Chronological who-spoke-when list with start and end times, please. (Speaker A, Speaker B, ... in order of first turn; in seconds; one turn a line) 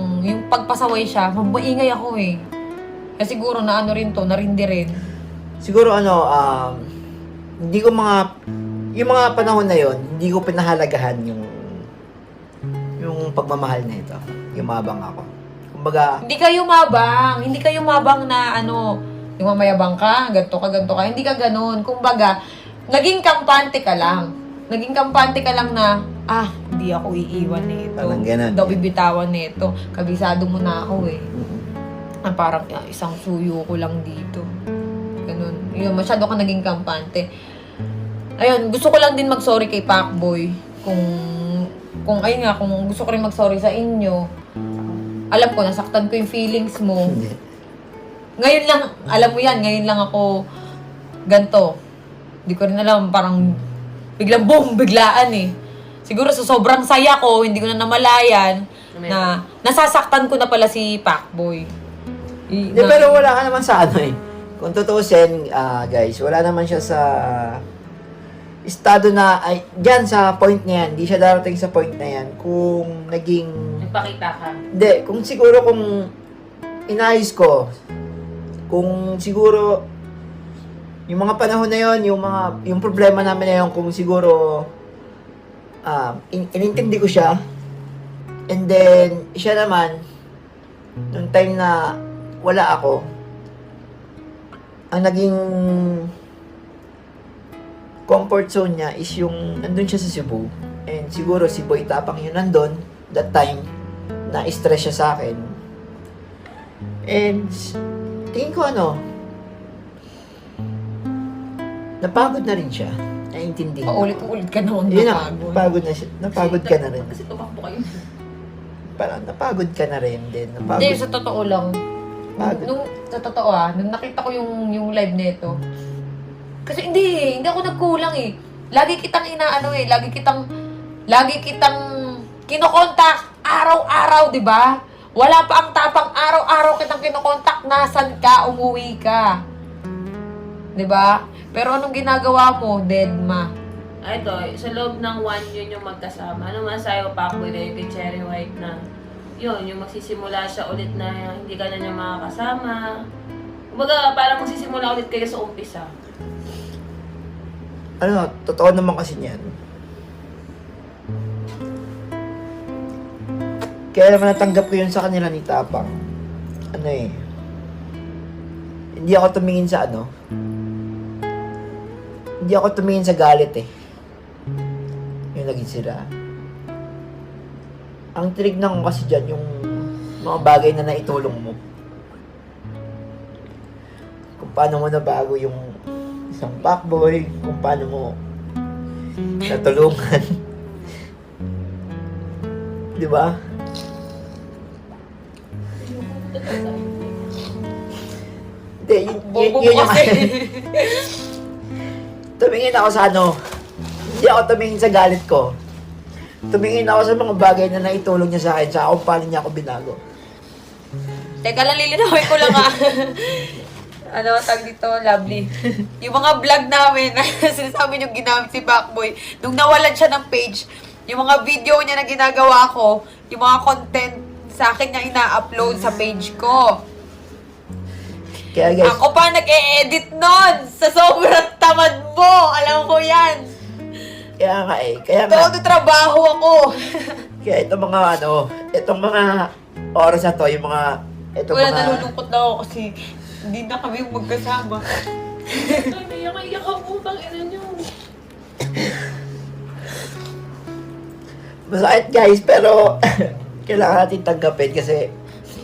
Speaker A: 0.2-2.4
Speaker A: 3.2-5.0
Speaker B: 5.6-6.9
Speaker B: 7.6-8.3
Speaker B: 9.0-11.8
Speaker B: 13.0-16.2
Speaker A: 16.2-18.8
Speaker A: 19.4-22.3
Speaker A: 22.9-31.3
Speaker B: 28.0-28.8
Speaker B: 31.3-31.6
Speaker A: 32.2-34.5
Speaker A: 35.2-37.3
Speaker A: 38.4-44.2
Speaker A: 45.3-47.1
Speaker B: 47.0-47.4
Speaker A: 48.4-50.2
Speaker A: 51.3-51.7
Speaker A: 52.5-53.4
Speaker A: 54.2-55.5
Speaker A: 56.1-61.7
Speaker C: 58.9-59.3
Speaker A: 62.5-63.2
Speaker B: 62.7-67.6
Speaker B: 68.7-73.8
Speaker C: 73.8-74.6
Speaker B: 74.7-76.1
Speaker B: 76.9-77.7
Speaker B: 78.7-79.8
Speaker B: 81.1-84.7
Speaker B: 85.8-87.3
Speaker B: 88.5-90.0
Speaker B: 91.1-93.0
Speaker B: 94.9-96.1
Speaker B: 98.1-103.7
Speaker B: 104.3-105.6
Speaker B: 107.1-107.8
Speaker B: 108.3-109.0
Speaker B: 112.0-114.2
Speaker A: 113.9-115.6
Speaker B: 114.9-117.1
Speaker C: 116.5-118.0
Speaker B: 119.0-121.0
Speaker A: 120.8-121.8
Speaker B: 122.4-122.7
Speaker A: 122.4-125.5
Speaker A: 126.7-130.4
Speaker A: 131.1-131.8
Speaker A: 132.4-139.3
Speaker A: 140.8-143.5
Speaker C: 144.0-148.8
Speaker C: 149.4-152.9
Speaker C: 153.7-155.9
Speaker B: 158.0-159.5
Speaker B: 163.9-166.0
Speaker B: 166.7-167.2
Speaker B: 169.0-170.1
Speaker B: 172.4-173.7
Speaker B: 175.3-176.1
Speaker B: 178.2-181.6
Speaker B: 184.4-185.7
Speaker B: 186.3-188.2
Speaker B: 189.4-190.4
Speaker B: 192.9-193.4
Speaker C: 195.8-197.3
Speaker B: 198.8-200.3
Speaker A: 199.2-201.2
Speaker B: 202.4-203.4
Speaker B: 204.1-205.5
Speaker B: 206.5-210.0
Speaker A: 211.4-213.6
Speaker B: 212.3-212.6
Speaker A: 214.1-226.8
Speaker B: 228.5-229.0
Speaker A: 228.8-233.5
Speaker B: 234.4-235.5
Speaker A: 235.3-237.2
Speaker B: 237.4-242.1
Speaker A: 241.5-242.9
Speaker A: 243.5-244.8
Speaker A: 245.5-245.9
Speaker C: 245.6-247.9
Speaker B: 251.7-255.1